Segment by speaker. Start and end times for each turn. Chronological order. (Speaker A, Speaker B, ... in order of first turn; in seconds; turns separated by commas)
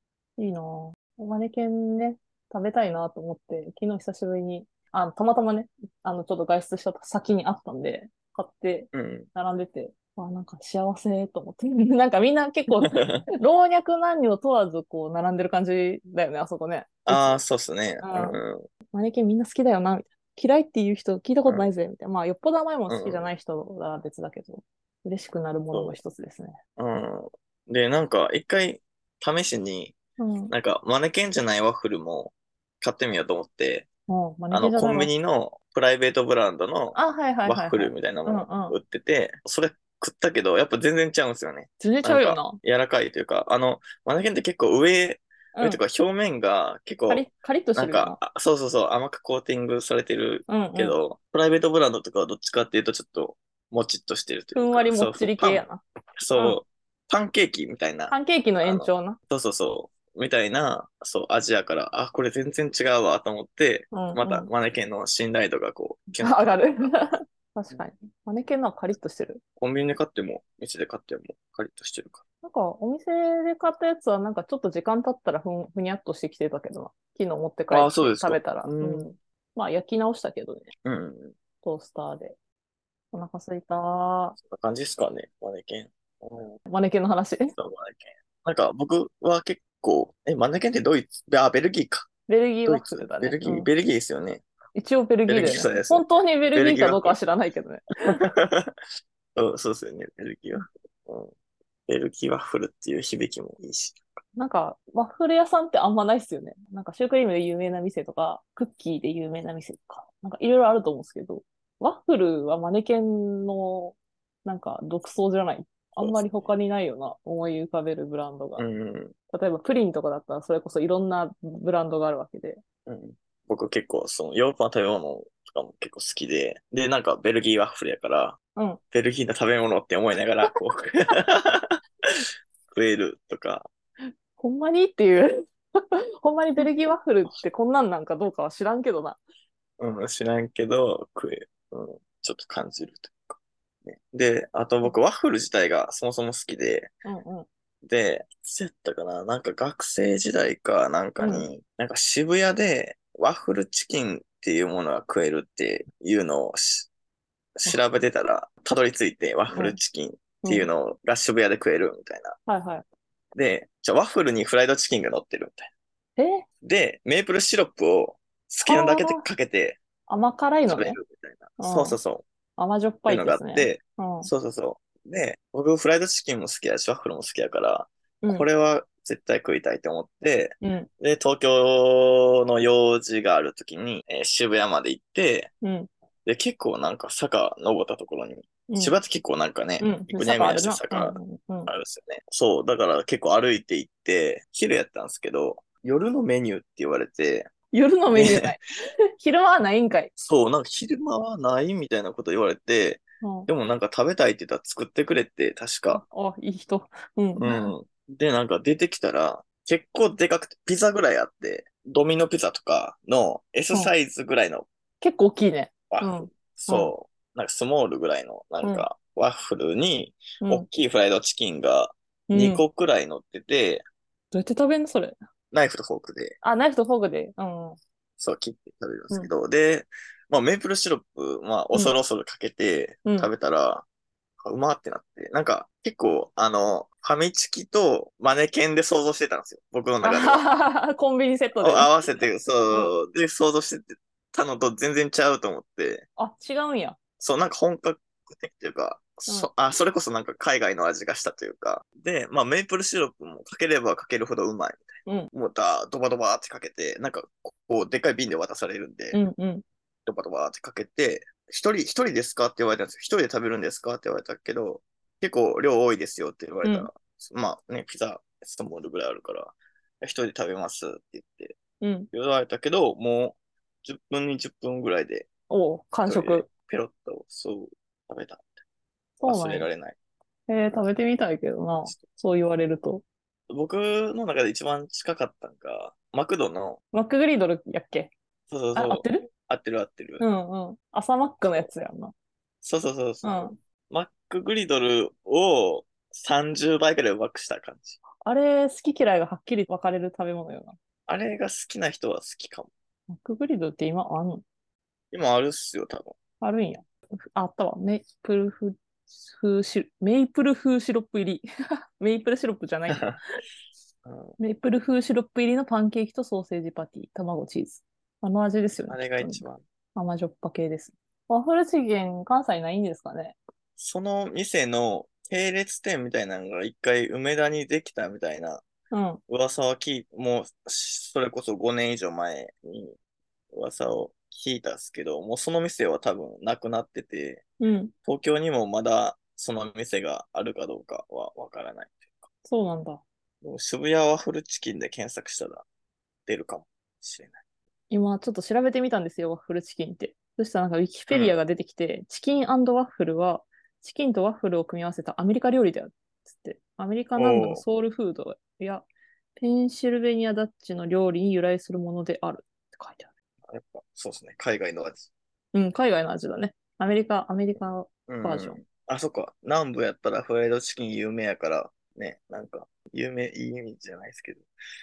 Speaker A: 0.4-17.4, Speaker B: 8.9-9.3, Speaker B: 12.8-13.2, Speaker B: 17.1-18.7, Speaker A: 18.0-18.4, Speaker A: 18.9-26.6, Speaker B: 22.9-23.3, Speaker B: 26.8-29.9, Speaker A: 30.2-30.5, Speaker B: 30.5-33.9, Speaker A: 34.1-35.1, Speaker B: 34.5-55.6, Speaker A: 36.9-38.8, Speaker A: 41.8-42.6, Speaker A: 45.5-45.8, Speaker A: 47.1-48.2, Speaker A: 50.5-51.0, Speaker A: 54.5-56.6, Speaker B: 56.2-67.1, Speaker A: 58.1-59.2, Speaker A: 63.9-64.5, Speaker A: 66.2-69.4, Speaker B: 69.6-72.2, Speaker A: 72.4-80.7, Speaker B: 77.7-79.0, Speaker B: 80.8-81.3, Speaker A: 81.6-82.3, Speaker A: 83.1-84.4, Speaker B: 84.4-86.6, Speaker A: 86.7-87.5, Speaker B: 87.6-92.1, Speaker A: 92.3-93.7, Speaker B: 92.6-94.4, Speaker A: 94.7-98.2, Speaker B: 95.3-97.2, Speaker B: 98.1-98.7, Speaker B: 99.3-101.3, Speaker B: 101.9-104.2, Speaker A: 104.3-118.7, Speaker B: 116.0-116.5, Speaker B: 118.6-119.1, Speaker A: 119.3-122.6, Speaker B: 122.8-128.4, Speaker B: 128.9-133.7, Speaker A: 134.4-139.2, Speaker B: 139.8-146.9, Speaker A: 147.0-147.5, Speaker B: 147.8-156.9, Speaker A: 151.2-151.5, Speaker B: 157.6-162.4, Speaker A: 159.5-159.8, Speaker A: 160.4-160.7, Speaker A: 162.5-162.8, Speaker B: 163.3-165.7, Speaker A: 166.2-166.4, Speaker B: 166.6-169.8, Speaker A: 168.6-169.2, Speaker A: 170.1-171.0, Speaker B: 170.7-172.2, Speaker A: 171.6-172.0, Speaker A: 172.6-174.3, Speaker B: 173.1-185.5, Speaker A: 178.2-178.5, Speaker A: 180.6-180.9, Speaker A: 185.6-185.9, Speaker B: 186.2-197.5, Speaker A: 188.7-188.9, Speaker A: 189.8-191.7, Speaker A: 197.7-198.6, Speaker B: 198.1-198.6, Speaker A: 199.2-200.1, Speaker B: 200.2-206.0, Speaker A: 203.2-203.5, Speaker A: 205.9-207.7, Speaker B: 207.4-214.7, Speaker A: 215.0-216.9, Speaker B: 215.9-223.8, Speaker A: 218.6-218.9, Speaker A: 220.4-220.7, Speaker A: 222.3-222.6, Speaker A: 224.3-225.2, Speaker B: 225.5-226.4, Speaker A: 226.4-227.8, Speaker B: 228.2-233.8, Speaker B: 234.4-240.5, Speaker A: 240.0-241.9, Speaker B: 241.6-246.1, Speaker A: 246.2-247.0, Speaker B: 247.2-259.2, Speaker A: 255.1-255.3, Speaker A: 259.1-259.6, Speaker B: 260.1-271.6, Speaker A: 266.6-266.9, Speaker A: 271.8-272.1, Speaker B: 272.1-275.3, Speaker A: 275.5-276.5, Speaker B: 276.1-278.6, Speaker A: 279.2-279.7, Speaker B: 279.2-279.9, Speaker A: 280.5-283.0, Speaker B: 283.5-286.8, Speaker A: 286.9-288.1, Speaker B: 288.5-290.2, Speaker A: 288.7-289.3, Speaker A: 290.2-292.1, Speaker B: 292.6-298.0, Speaker A: 293.2-293.6, Speaker A: 298.2-300.8, Speaker B: 301.1-302.7, Speaker A: 303.1-304.4, Speaker B: 305.1-306.1, Speaker A: 306.4-311.4, Speaker A: 312.0-313.1, Speaker B: 312.9-313.2, Speaker B: 314.0-314.4, Speaker A: 314.4-323.4, Speaker B: 318.9-319.6, Speaker B: 323.8-328.6, Speaker A: 328.9-329.2, Speaker B: 329.3-333.0, Speaker B: 333.5-337.4, Speaker A: 337.6-337.9, Speaker B: 338.1-342.3, Speaker A: 342.4-343.0, Speaker B: 343.4-345.6, Speaker B: 346.2-347.4, Speaker A: 347.9-363.1, Speaker B: 351.1-351.4, Speaker B: 357.2-357.6, Speaker B: 363.4-365.1, Speaker A: 365.5-368.6, Speaker B: 368.1-374.4